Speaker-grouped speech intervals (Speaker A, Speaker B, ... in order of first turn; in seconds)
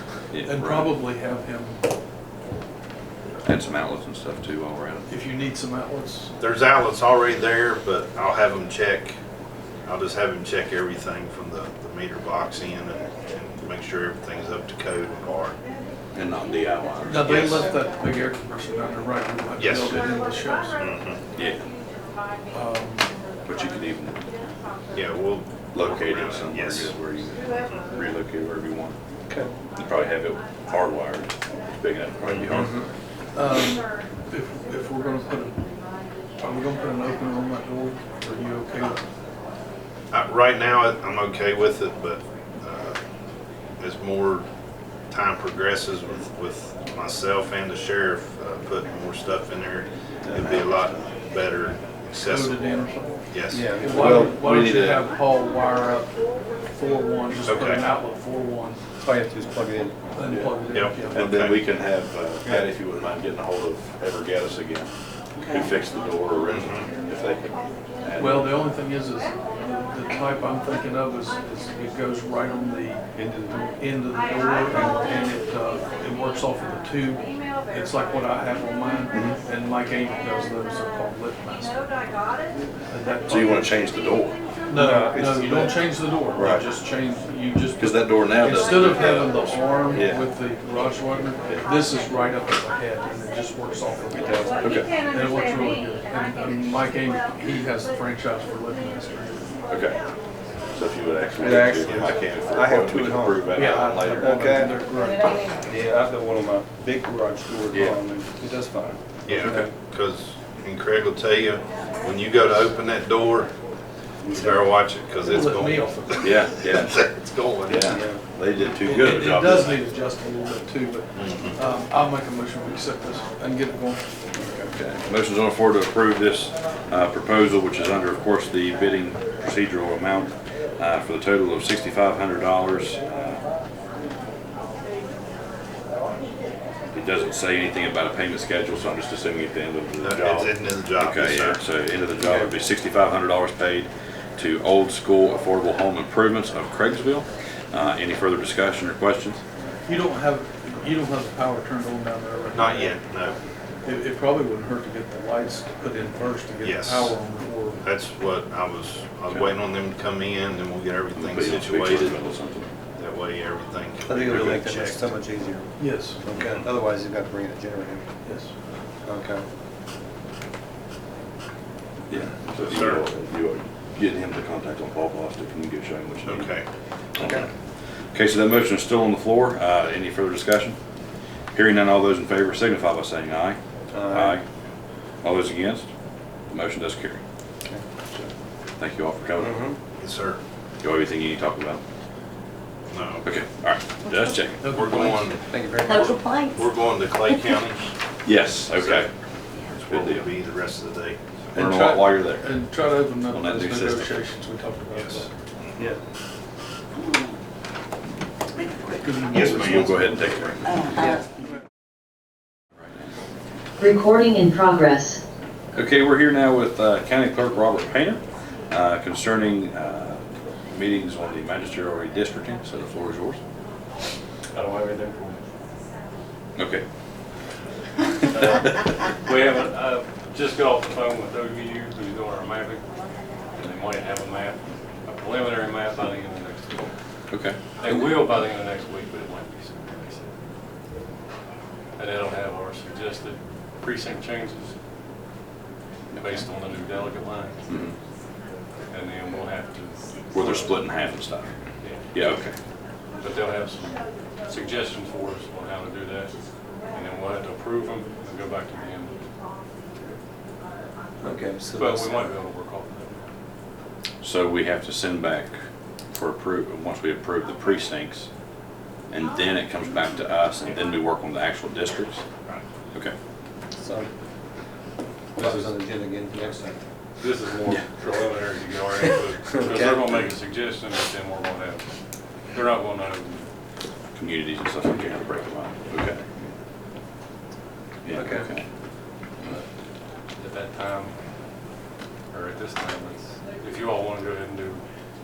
Speaker A: 0.3-0.9, 3.4-5.1, 16.1-17.4, 21.3-21.6, 23.4-24.2, 25.7-28.9, 29.8-32.8, 50.2-51.1, 54.0-55.0, 61.1-64.9, 65.5-68.5, 83.3-84.4, 86.3-86.6, 87.8-90.2, 94.6-94.9, 99.7-100.0, 100.7-104.3, 107.7-108.0, 109.3-109.6, 116.2-119.8, 124.7-133.4, 136.9-149.4, 161.1-162.7, 172.1-176.5, 177.2-177.5, 178.1-180.8, 181.5-183.6, 184.1-184.4, 185.2-185.9, 186.5-187.2, 188.1-189.6, 190.8-191.8, 193.2-194.6, 198.2-199.1, 199.8-200.3, 201.5-202.6, 203.2-204.1, 209.4-210.8, 215.7-223.4, 226.6-226.8, 237.3-237.9, 246.1-246.5, 247.7-247.9, 250.3-251.5, 252.1-252.6, 264.2-265.6, 266.1-268.3, 269.1-272.2, 284.1-286.5, 288.0-288.6
Speaker B: 0.4-1.8, 5.1-6.3, 17.0-20.9, 22.5-23.1, 33.3-35.6, 36.4-39.0, 52.2-58.8, 60.1-61.2, 68.2-81.8, 82.9-83.8, 84.7-99.5, 103.5-105.4, 115.2-116.6, 118.8-124.0, 149.9-153.0, 153.8-157.8, 165.8-166.2, 168.2-168.5, 194.6-195.4, 201.5-205.3, 209.0-210.1
Speaker C: 6.4-9.1, 9.8-15.5, 17.2-17.7, 19.6-20.1, 20.8-21.2, 24.9-26.9, 32.2-32.5, 40.1-43.0, 43.8-44.5, 45.1-53.7, 57.5-57.8, 60.7-61.6, 66.5-66.9, 109.3-113.5, 114.3-117.9, 121.1-121.6, 140.0-141.6, 152.5-153.4, 156.6-157.1, 157.8-162.2, 162.9-165.1, 166.3-166.7, 172.5-173.1, 176.2-176.7, 190.0-190.4, 192.9-193.2, 194.7-197.9, 198.7-199.1, 199.7-201.2, 204.9-205.9, 209.3-210.1
Speaker D: 32.5-32.9, 53.5-54.4, 59.0-60.0, 73.1-73.6, 74.7-75.0, 84.7-85.8, 94.1-94.7, 101.4-104.8, 105.6-109.7, 114.2-114.7, 117.8-118.2, 124.3-124.7, 142.2-142.5, 164.1-165.7, 166.2-168.1, 169.0-169.4, 177.2-177.5, 183.9-184.4, 189.4-189.8, 195.5-196.2, 261.2-262.3, 273.8-274.1, 275.4-276.8, 279.5-280.1, 288.1-288.5
Speaker E: 196.0-196.5, 213.8-215.2
Speaker F: 224.5-225.4, 228.3-232.8, 233.6-236.9, 237.8-240.3, 241.9-244.7, 246.2-247.8, 248.9-250.7, 253.2-256.3, 256.9-259.1, 261.8-263.3, 275.4-275.7, 277.2-281.9, 282.5-283.4, 290.3-291.1, 292.3-294.8